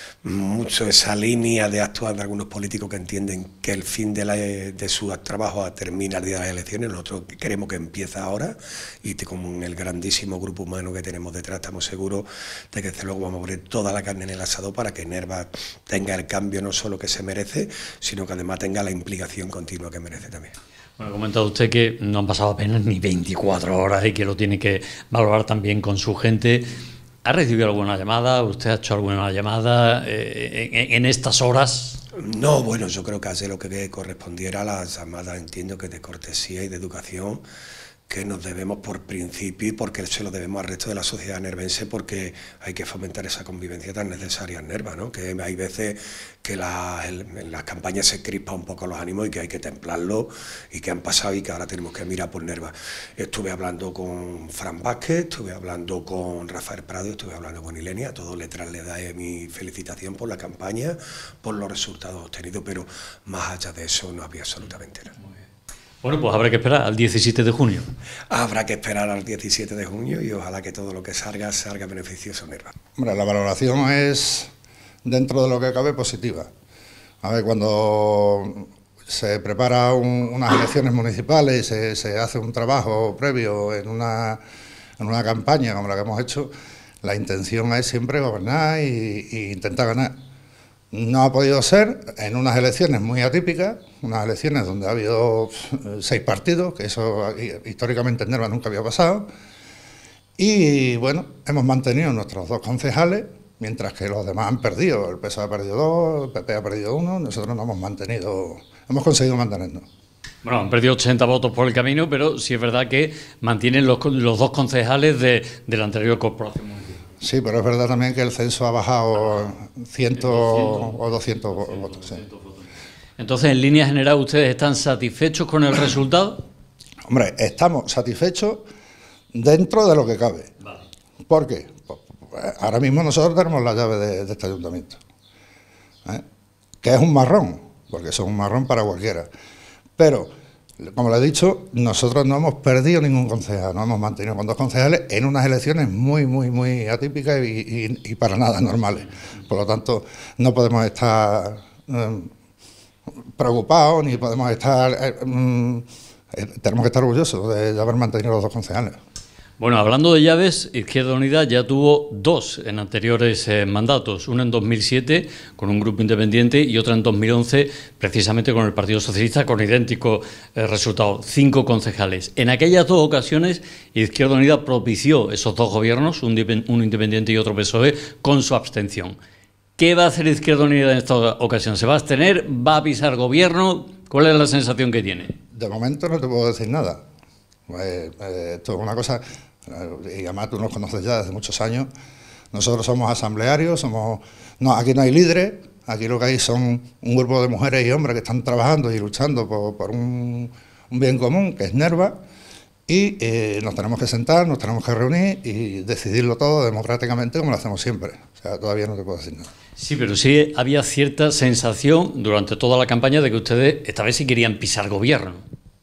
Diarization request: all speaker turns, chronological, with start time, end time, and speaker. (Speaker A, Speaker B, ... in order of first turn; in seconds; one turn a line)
Speaker A: 0.2-20.5
Speaker B: 21.0-26.7
Speaker B: 27.2-32.0
Speaker A: 32.1-37.4
Speaker A: 38.1-65.1
Speaker B: 66.0-67.9
Speaker A: 68.3-72.7
Speaker C: 73.0-74.5
Speaker C: 75.0-76.5
Speaker C: 77.2-84.4
Speaker C: 85.0-86.5
Speaker C: 87.0-90.1
Speaker C: 90.9-99.3
Speaker C: 100.4-109.8
Speaker B: 110.4-117.0
Speaker C: 117.2-122.2
Speaker B: 120.2-121.0
Speaker B: 121.5-122.6
Speaker B: 123.2-126.4
Speaker C: 127.1-128.7
Speaker C: 129.3-130.5
Speaker C: 131.3-135.0
Speaker C: 136.8-139.3
Speaker C: 140.0-152.3
Speaker C: 153.4-159.0
Speaker B: 159.6-179.2
Speaker B: 179.8-185.3
Speaker C: 185.5-187.0
Speaker C: 187.7-191.9
Speaker C: 192.5-202.2
Speaker C: 202.9-209.5
Speaker B: 209.8-215.4